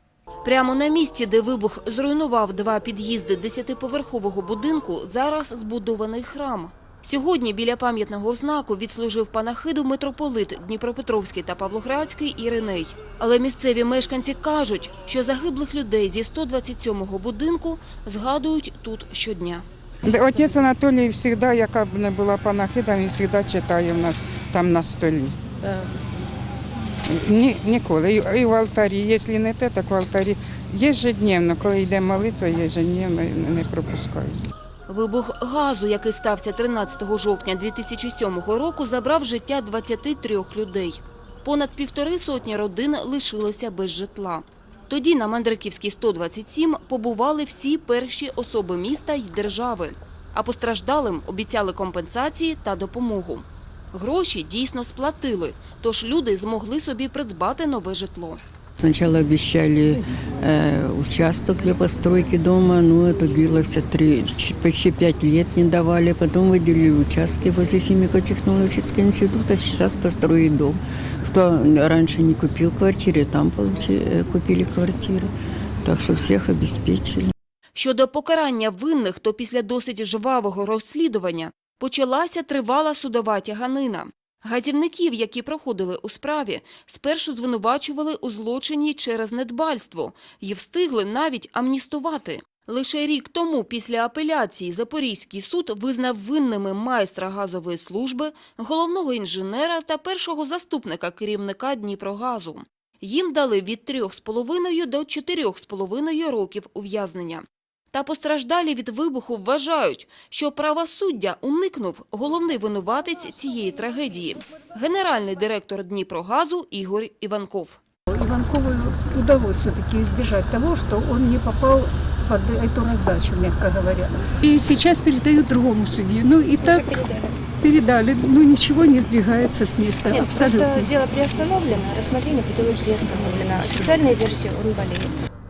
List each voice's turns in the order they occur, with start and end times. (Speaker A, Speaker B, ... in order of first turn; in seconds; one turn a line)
Speaker A: 0.4-19.6
Speaker B: 20.1-25.4
Speaker B: 27.1-34.4
Speaker A: 34.9-58.4
Speaker C: 58.8-75.3
Speaker C: 75.8-77.3
Speaker A: 77.8-117.8
Speaker D: 118.1-126.8
Speaker E: 126.6-127.3
Speaker D: 127.6-130.8
Speaker E: 130.0-135.2